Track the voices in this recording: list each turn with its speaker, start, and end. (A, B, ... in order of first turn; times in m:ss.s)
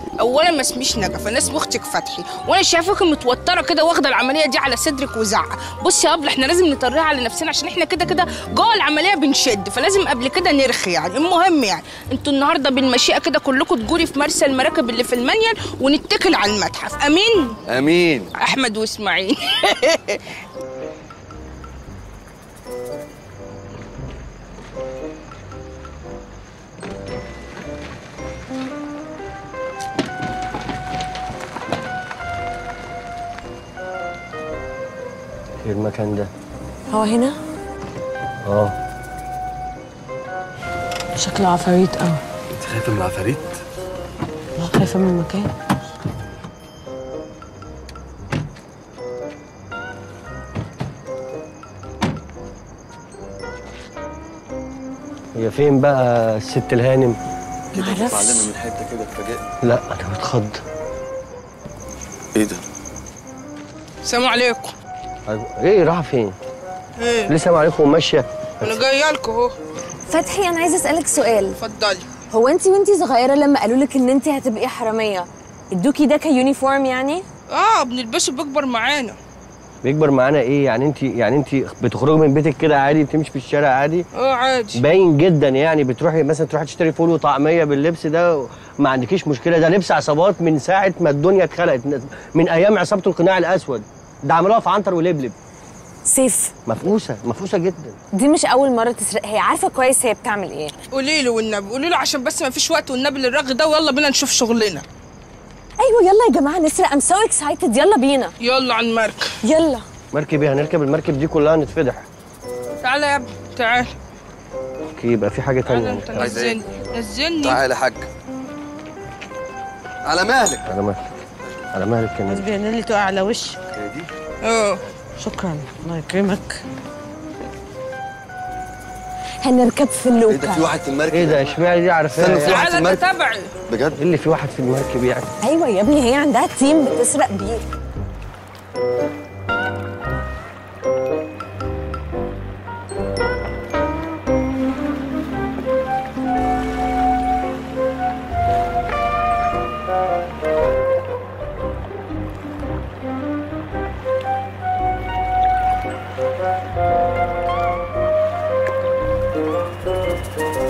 0:00.2-0:17.6 A
0:17.7-0:18.3 B
0:18.4-0:20.2 A
0:35.6-0:36.3 C
0:36.9-0:37.4 D
0:38.4-0:38.7 C
0:41.2-0:42.2 D
0:42.6-0:43.6 B
0:44.7-0:45.4 E
0:44.8-0:45.2 D
0:55.4-0:57.2 C
0:57.7-0:59.5 B
0:57.8-0:58.4 D
0:59.6-1:00.6 C
1:02.4-1:02.6 B
1:04.0-1:04.7 A
1:05.3-1:06.4 C
1:07.0-1:07.4 A
1:07.3-1:08.8 C
1:08.6-1:09.6 A
1:10.1-1:11.6 D
1:11.6-1:12.1 A
1:12.3-1:17.2 D
1:17.5-1:19.2 A
1:19.8-1:24.1 C
1:24.1-1:24.8 A
1:24.8-1:35.4 C
1:36.1-1:36.5 D
1:36.7-1:38.0 C
1:38.1-1:40.7 D
1:40.9-1:44.8 A
1:45.8-1:48.3 D
1:48.4-1:49.3 A
1:49.4-1:49.8 D
1:50.1-1:52.0 C
1:52.8-1:54.0 A
1:55.0-1:56.4 C
1:55.6-1:57.6 A
1:56.2-1:56.6 B
1:57.4-1:58.1 B
2:00.0-2:00.7 B
2:00.7-2:01.1 C
2:01.7-2:02.4 C
2:02.3-2:03.6 E
2:03.8-2:04.1 B
2:04.4-2:04.8 A
2:05.2-2:06.6 E
2:09.4-2:10.7 D
2:10.3-2:11.6 B
2:11.1-2:12.7 C
2:12.2-2:13.0 B
2:12.4-2:13.5 A
2:13.7-2:14.0 B
2:14.0-2:15.3 C
2:15.4-2:17.6 D